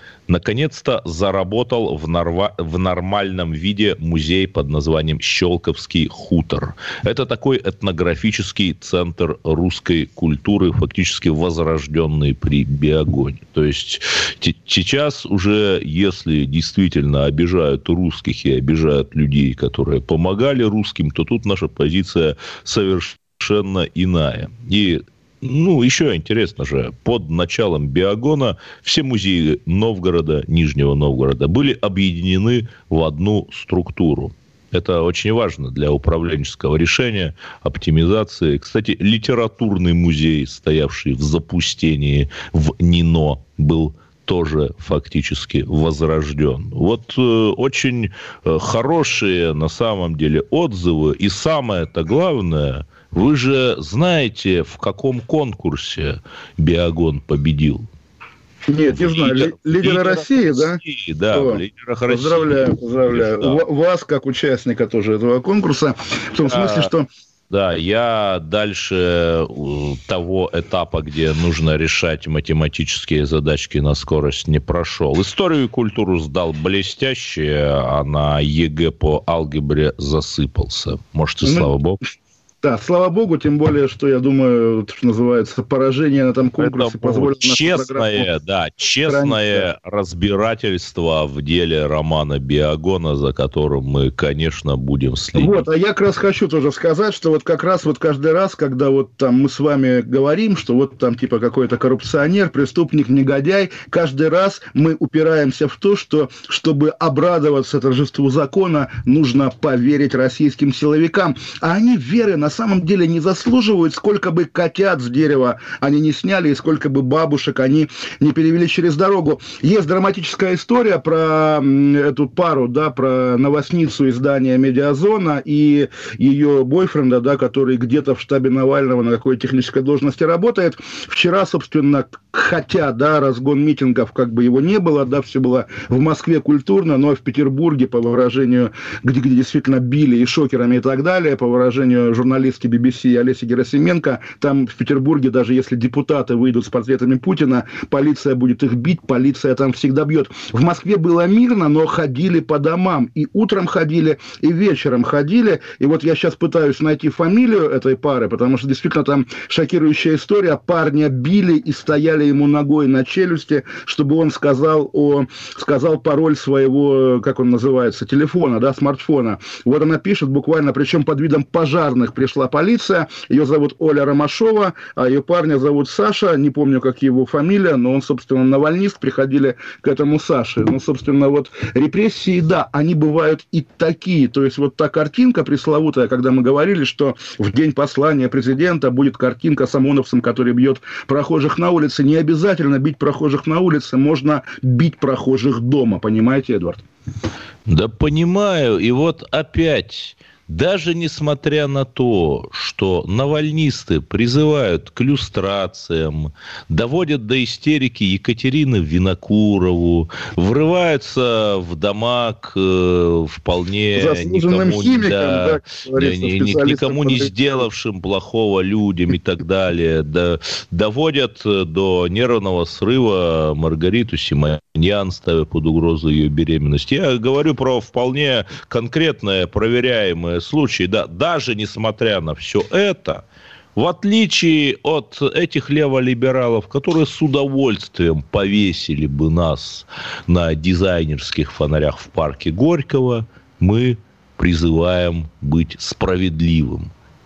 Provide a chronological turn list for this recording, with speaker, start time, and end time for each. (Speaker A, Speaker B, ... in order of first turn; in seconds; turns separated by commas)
Speaker A: 0.3-57.9, Speaker B: 58.7-60.8, Speaker A: 58.9-63.6, Speaker B: 61.3-67.1, Speaker A: 66.4-66.9, Speaker A: 67.5-82.0, Speaker B: 81.4-81.7, Speaker B: 82.6-88.3, Speaker A: 86.6-95.6, Speaker B: 89.1-89.7, Speaker B: 95.4-196.8, Speaker A: 197.7-233.2, Speaker B: 214.0-217.3, Speaker A: 233.8-246.9